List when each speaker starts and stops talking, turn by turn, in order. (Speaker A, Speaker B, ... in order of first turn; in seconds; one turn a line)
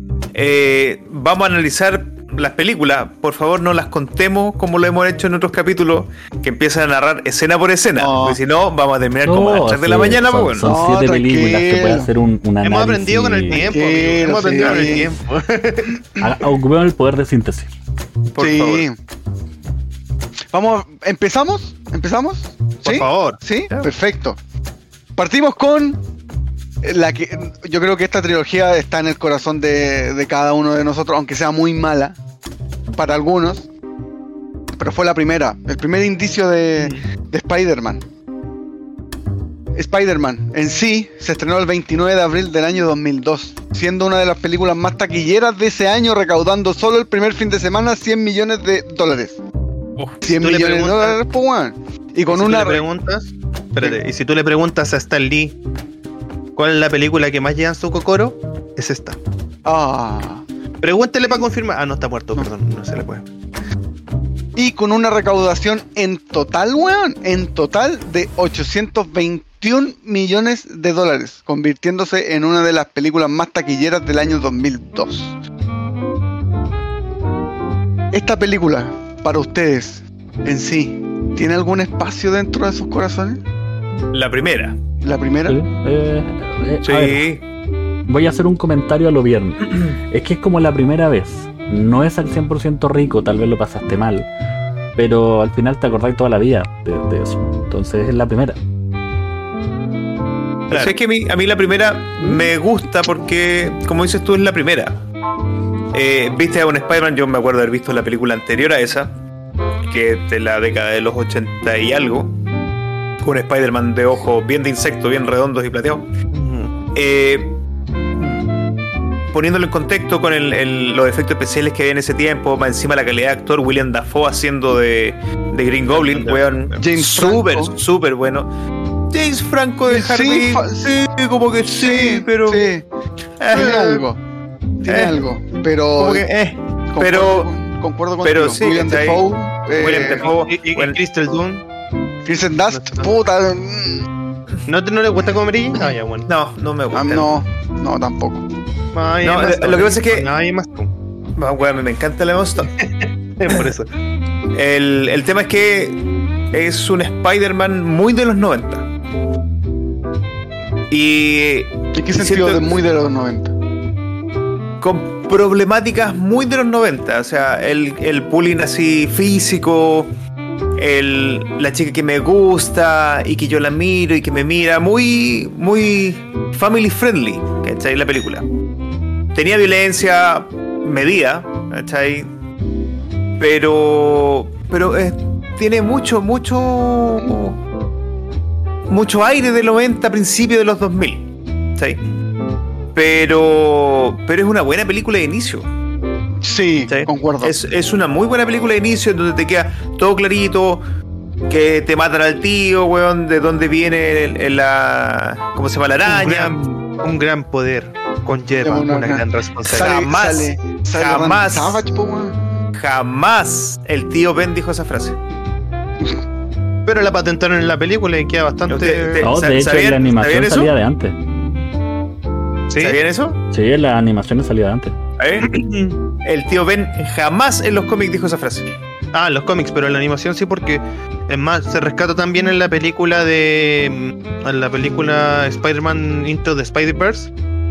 Speaker A: 0.3-10.7
Speaker B: 8.0-8.4
Speaker C: 9.2-13.7
Speaker B: 10.6-12.1
Speaker D: 12.6-16.0
Speaker B: 13.5-15.1
Speaker C: 16.2-17.7
Speaker A: 18.4-18.9
Speaker B: 18.4-19.0
Speaker B: 20.5-24.4
Speaker D: 22.8-23.9
Speaker B: 25.2-26.0
Speaker B: 26.8-32.2
Speaker B: 33.0-33.7
Speaker B: 34.8-38.0
Speaker B: 39.8-49.4
Speaker B: 50.2-52.9
Speaker D: 50.3-51.2
Speaker D: 52.3-55.6
Speaker D: 56.6-59.2
Speaker B: 59.6-60.5
Speaker D: 60.8-63.2
Speaker B: 64.6-75.3
Speaker B: 78.1-83.4
Speaker A: 84.1-84.8
Speaker B: 85.0-85.6
Speaker C: 85.5-87.3
Speaker A: 86.8-87.4
Speaker C: 88.1-94.3
Speaker C: 95.0-98.6
Speaker D: 100.7-101.0
Speaker A: 100.7-105.0
Speaker A: 105.9-109.1
Speaker A: 109.8-112.3
Speaker A: 113.2-116.1
Speaker D: 116.3-116.7
Speaker A: 117.0-117.6
Speaker A: 119.3-128.5
Speaker D: 125.9-126.8
Speaker B: 126.8-127.8
Speaker A: 129.1-132.7
Speaker B: 129.9-130.9
Speaker B: 131.7-132.8
Speaker A: 133.4-134.1
Speaker B: 133.5-134.2
Speaker A: 134.8-135.2
Speaker B: 134.8-136.3
Speaker A: 136.0-137.5
Speaker B: 136.9-140.3
Speaker A: 138.2-139.2
Speaker A: 139.8-141.0
Speaker D: 139.8-141.6
Speaker B: 142.3-144.1
Speaker D: 142.7-143.1
Speaker D: 144.7-146.3
Speaker A: 146.3-147.3
Speaker B: 146.9-148.4
Speaker D: 148.9-150.9
Speaker A: 149.2-150.3
Speaker A: 151.4-152.7
Speaker D: 152.8-153.9
Speaker A: 154.5-158.9
Speaker A: 160.9-162.8
Speaker B: 162.0-163.5
Speaker A: 164.8-170.1
Speaker A: 170.8-178.4
Speaker A: 179.3-182.3
Speaker A: 183.4-187.6
Speaker A: 188.9-191.2
Speaker A: 192.9-195.7
Speaker B: 196.4-197.5
Speaker A: 196.9-200.8
Speaker A: 201.5-206.6
Speaker D: 206.1-209.9
Speaker B: 208.6-212.4
Speaker A: 209.7-211.8
Speaker A: 212.8-215.2
Speaker D: 216.9-219.3
Speaker A: 218.7-220.7
Speaker C: 219.2-221.2
Speaker D: 222.7-223.0
Speaker A: 222.8-223.4
Speaker C: 223.5-224.9
Speaker A: 225.2-225.5
Speaker D: 225.4-226.0
Speaker A: 226.2-228.7
Speaker D: 229.1-237.3